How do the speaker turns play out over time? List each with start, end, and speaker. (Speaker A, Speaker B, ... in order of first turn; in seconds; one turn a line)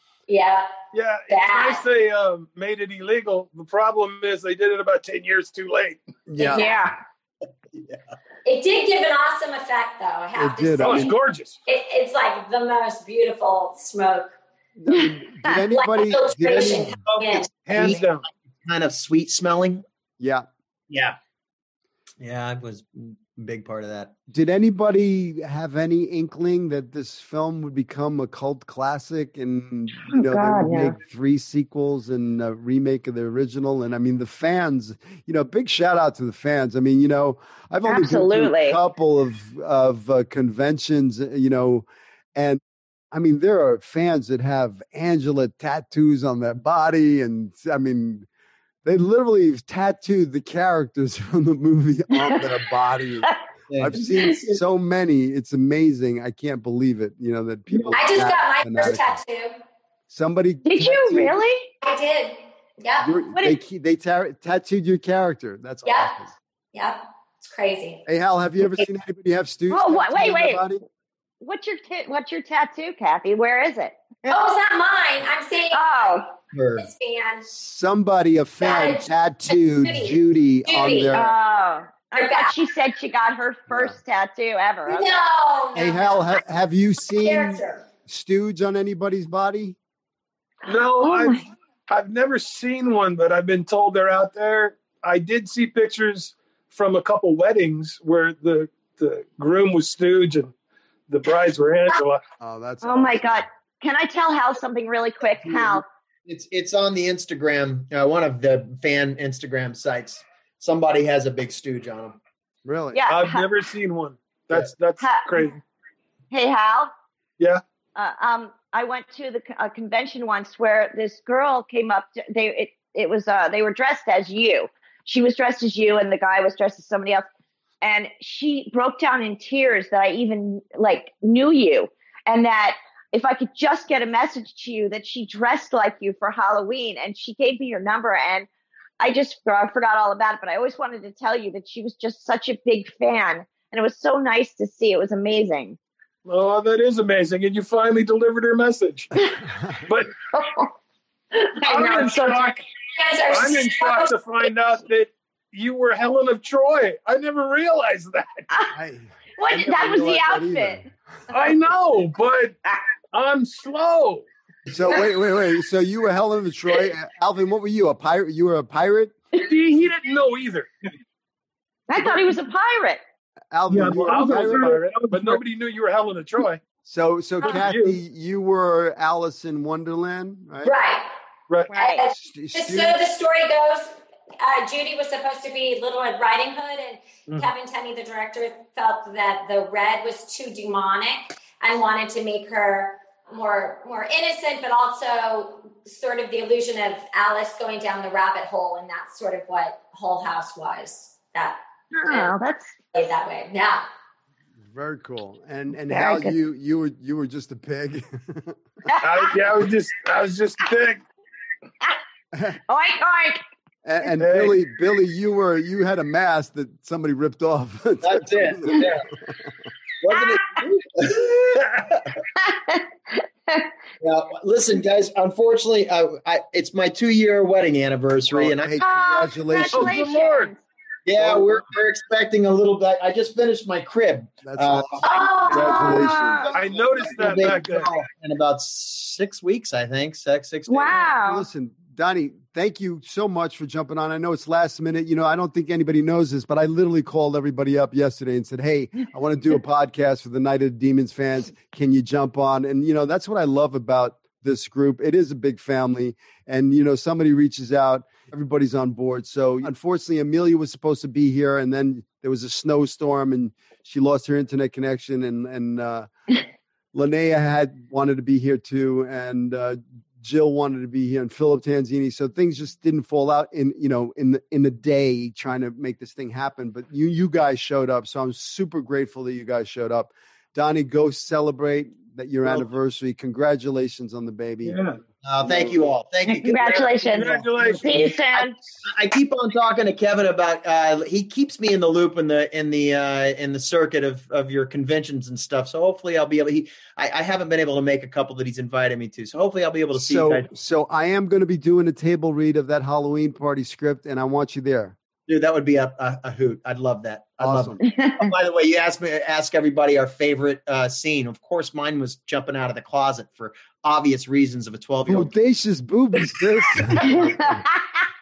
Speaker A: 0.3-0.7
Speaker B: 0.9-6.0
Speaker A: 1.3-1.8
Speaker C: 6.3-6.6
Speaker A: 6.4-6.8
Speaker D: 6.4-7.0
Speaker A: 8.4-14.3
Speaker C: 10.3-11.1
Speaker B: 10.8-11.6
Speaker C: 14.8-17.0
Speaker D: 14.9-15.6
Speaker A: 15.7-17.9
Speaker E: 16.6-18.1
Speaker B: 17.7-18.3
Speaker E: 18.6-19.8
Speaker C: 20.2-20.5
Speaker E: 20.9-21.1
Speaker E: 22.2-24.1
Speaker C: 24.3-42.6
Speaker D: 30.1-31.0
Speaker D: 37.8-38.8
Speaker C: 43.1-48.2
Speaker C: 48.8-59.2
Speaker D: 52.1-52.6
Speaker E: 53.7-54.6
Speaker A: 57.9-59.6
Speaker C: 60.1-61.4
Speaker D: 60.6-61.7
Speaker A: 61.8-63.1
Speaker C: 63.0-66.3
Speaker D: 63.3-63.6
Speaker A: 65.8-66.2
Speaker A: 66.7-68.0
Speaker C: 68.0-70.8
Speaker D: 69.7-70.6
Speaker D: 71.4-74.4
Speaker A: 74.3-76.2
Speaker D: 75.7-76.3
Speaker E: 76.5-76.9
Speaker A: 76.8-77.4
Speaker C: 77.5-81.3
Speaker A: 78.6-81.2
Speaker D: 81.1-85.1
Speaker A: 82.1-82.5
Speaker A: 84.8-86.4
Speaker C: 85.7-89.8
Speaker A: 87.1-87.8
Speaker B: 90.7-100.5
Speaker D: 90.7-91.4
Speaker B: 101.1-102.2
Speaker C: 102.4-103.5
Speaker D: 102.8-105.8
Speaker E: 105.5-112.2
Speaker C: 112.6-113.0
Speaker D: 112.9-113.5
Speaker B: 113.1-115.6
Speaker D: 115.0-115.5
Speaker D: 116.3-116.9
Speaker D: 118.0-127.3
Speaker D: 127.8-138.5
Speaker D: 139.0-145.8
Speaker B: 146.2-149.2
Speaker C: 149.4-149.8
Speaker B: 149.8-150.2
Speaker D: 150.3-150.7
Speaker D: 151.3-152.6
Speaker B: 151.6-152.7
Speaker A: 152.9-154.1
Speaker B: 153.3-158.5
Speaker C: 158.7-160.9
Speaker D: 159.4-160.8
Speaker B: 161.3-162.6
Speaker B: 163.1-164.2
Speaker C: 164.7-169.2
Speaker B: 169.3-170.7
Speaker D: 171.9-173.0
Speaker C: 173.5-174.7
Speaker F: 173.7-175.4
Speaker B: 174.0-176.6
Speaker C: 176.8-180.7
Speaker B: 177.4-178.0
Speaker A: 180.6-181.1
Speaker D: 181.7-182.0
Speaker A: 181.7-202.3
Speaker C: 182.2-183.0
Speaker D: 201.9-202.8
Speaker A: 202.9-203.8
Speaker C: 204.6-208.6
Speaker D: 205.9-206.3
Speaker D: 208.8-209.3
Speaker B: 209.0-211.0
Speaker D: 212.7-213.4
Speaker C: 213.8-218.9
Speaker B: 214.2-214.5
Speaker E: 218.0-219.1
Speaker E: 220.0-222.2
Speaker D: 222.4-223.7
Speaker E: 224.0-228.9
Speaker C: 228.3-230.1
Speaker D: 228.8-230.6
Speaker B: 229.7-230.5
Speaker E: 231.1-236.0
Speaker C: 231.2-231.6
Speaker C: 234.4-237.6
Speaker A: 235.0-236.1
Speaker D: 235.6-236.6
Speaker B: 236.5-237.9
Speaker E: 237.1-241.0
Speaker D: 240.7-241.4
Speaker C: 241.1-266.1
Speaker C: 266.9-284.8
Speaker F: 284.6-285.0
Speaker E: 285.2-287.4
Speaker C: 285.4-285.8
Speaker D: 286.2-288.6
Speaker B: 287.1-288.2
Speaker E: 288.8-300.5
Speaker C: 299.9-304.9
Speaker E: 305.3-315.3
Speaker C: 307.4-307.8
Speaker D: 307.8-308.3
Speaker C: 315.1-317.6
Speaker E: 316.2-317.3
Speaker D: 317.0-317.8